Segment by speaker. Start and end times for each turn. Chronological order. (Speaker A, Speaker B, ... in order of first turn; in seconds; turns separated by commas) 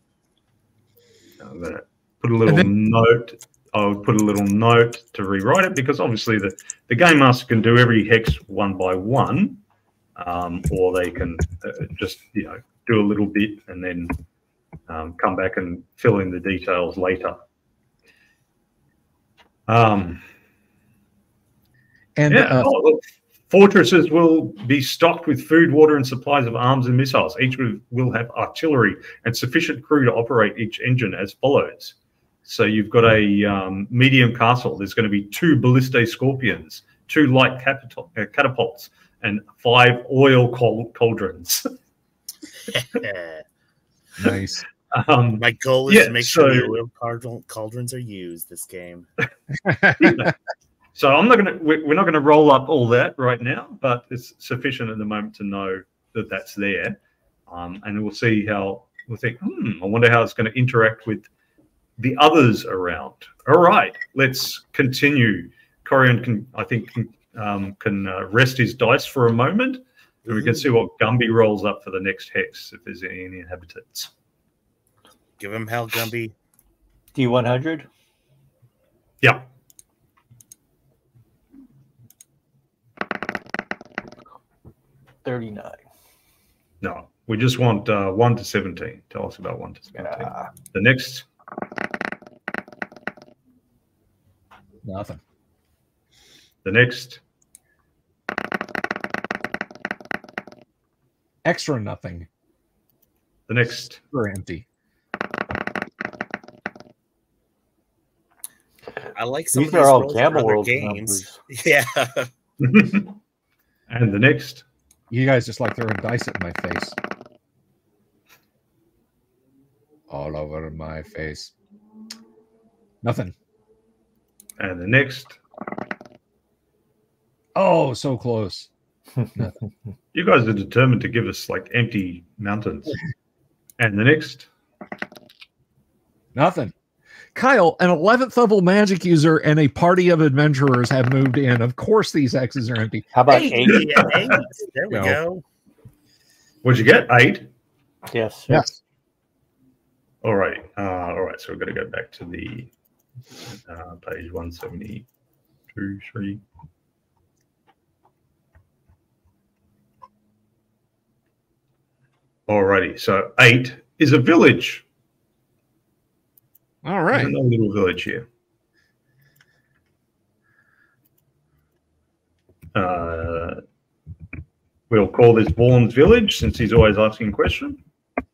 Speaker A: 1.4-9.6, Speaker A: 10.2-14.2, Speaker A: 14.9-17.4, Speaker A: 19.7-20.2, Speaker B: 22.2-22.7, Speaker A: 22.3-31.9, Speaker A: 32.5-41.7, Speaker C: 42.7-43.4, Speaker B: 44.2-44.6, Speaker A: 44.9-46.8, Speaker C: 45.4-49.1, Speaker B: 49.6-50.3, Speaker A: 50.0-50.3, Speaker A: 51.0-61.3, Speaker A: 62.0-74.1, Speaker C: 75.4-76.3, Speaker D: 77.2-77.9, Speaker D: 85.2-85.8, Speaker A: 86.8-91.3, Speaker B: 94.8-95.2, Speaker A: 96.6-97.2, Speaker B: 101.5-102.3, Speaker A: 103.5-104.0, Speaker B: 104.1-104.7, Speaker C: 109.2-112.3, Speaker D: 109.5-111.4, Speaker A: 112.6-113.2, Speaker A: 113.9-114.6, Speaker B: 115.1-117.0, Speaker B: 120.1-121.5, Speaker B: 123.0-123.3, Speaker A: 124.6-125.4, Speaker B: 127.5-128.7, Speaker A: 130.1-133.0, Speaker A: 133.8-134.5, Speaker B: 136.3-136.7, Speaker B: 137.3-143.5, Speaker D: 143.1-144.3, Speaker C: 143.3-145.4, Speaker B: 144.9-145.2, Speaker A: 146.6-147.5, Speaker D: 148.1-148.7, Speaker B: 148.5-148.8, Speaker A: 150.2-152.7, Speaker A: 153.5-155.1, Speaker A: 155.7-156.4, Speaker A: 162.5-164.8, Speaker B: 166.8-167.3, Speaker A: 167.1-168.3, Speaker A: 172.7-173.6, Speaker A: 174.9-177.8